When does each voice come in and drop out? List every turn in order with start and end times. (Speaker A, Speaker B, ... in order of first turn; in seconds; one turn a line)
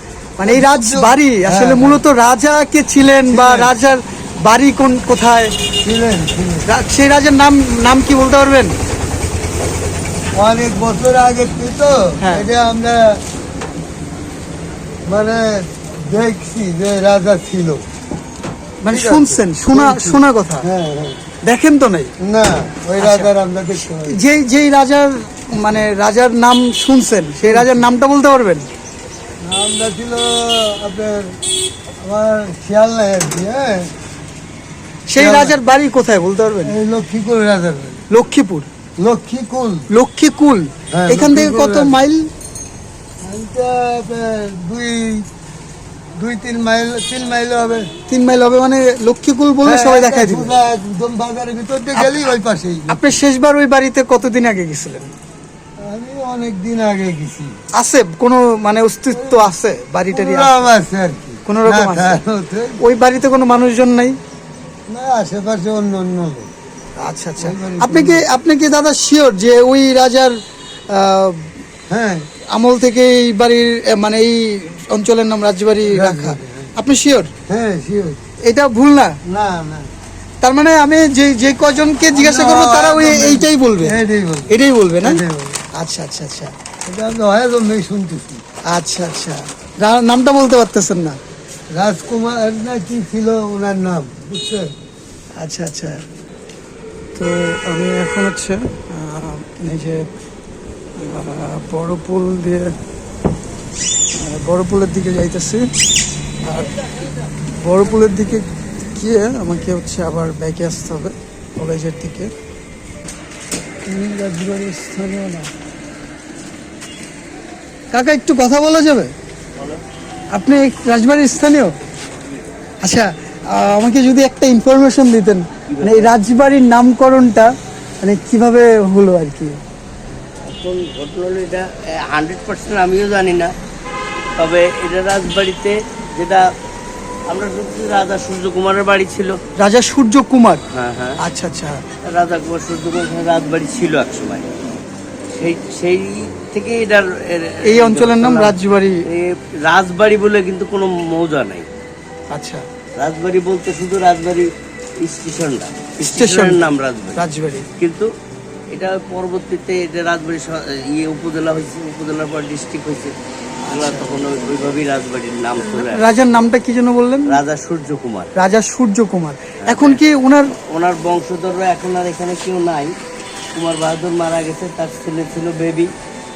Speaker A: 0.4-5.5
Speaker B: 0.4-2.0
Speaker B: 3.3-3.7
Speaker B: 5.8-6.7
Speaker A: 6.7-8.7
Speaker B: 10.4-13.2
Speaker A: 12.2-12.5
Speaker B: 15.1-17.9
Speaker A: 18.8-20.7
Speaker B: 18.9-21.2
Speaker A: 21.4-22.1
Speaker B: 22.2-24.2
Speaker A: 23.0-23.3
Speaker A: 24.1-28.7
Speaker B: 27.5-27.9
Speaker B: 29.4-31.4
Speaker B: 32.0-33.9
Speaker A: 35.1-36.8
Speaker B: 35.2-35.6
Speaker B: 36.6-38.0
Speaker A: 38.1-38.7
Speaker B: 39.0-39.9
Speaker A: 39.9-42.3
Speaker B: 40.9-42.0
Speaker B: 43.2-45.3
Speaker B: 46.2-47.9
Speaker A: 48.1-50.5
Speaker B: 49.6-53.0
Speaker A: 52.9-55.1
Speaker B: 55.8-57.6
Speaker A: 57.8-60.7
Speaker B: 59.1-59.5
Speaker B: 60.1-62.8
Speaker A: 61.5-62.2
Speaker A: 62.8-64.2
Speaker B: 64.9-66.5
Speaker A: 67.0-70.4
Speaker B: 67.4-68.3
Speaker A: 70.9-71.5
Speaker B: 71.9-72.3
Speaker A: 72.5-77.3
Speaker B: 75.9-76.7
Speaker B: 77.5-78.2
Speaker A: 78.4-79.2
Speaker B: 79.3-79.9
Speaker A: 80.4-84.0
Speaker B: 82.1-84.5
Speaker A: 84.5-85.2
Speaker B: 85.0-85.7
Speaker A: 85.7-86.5
Speaker B: 86.8-88.4
Speaker A: 88.7-91.2
Speaker B: 91.8-94.7
Speaker A: 95.4-96.0
Speaker A: 97.2-100.1
Speaker A: 101.0-102.7
Speaker A: 104.2-105.7
Speaker A: 106.4-106.8
Speaker A: 107.6-112.3
Speaker A: 113.9-115.5
Speaker A: 117.9-119.1
Speaker A: 120.3-121.8
Speaker A: 122.8-129.6
Speaker C: 125.7-126.1
Speaker C: 130.4-133.5
Speaker C: 134.4-136.5
Speaker C: 137.3-139.4
Speaker A: 139.6-140.6
Speaker C: 140.7-141.2
Speaker A: 141.2-141.8
Speaker C: 142.1-144.5
Speaker C: 145.4-148.6
Speaker A: 147.6-149.0
Speaker C: 149.1-151.7
Speaker A: 152.3-152.7
Speaker C: 153.0-157.2
Speaker A: 156.1-157.7
Speaker C: 157.8-158.1
Speaker C: 158.7-163.1
Speaker A: 163.7-164.1
Speaker C: 163.7-166.0
Speaker A: 165.6-167.4
Speaker C: 167.3-168.3
Speaker A: 168.3-170.6
Speaker C: 169.6-170.0
Speaker C: 170.7-172.9
Speaker C: 173.6-175.9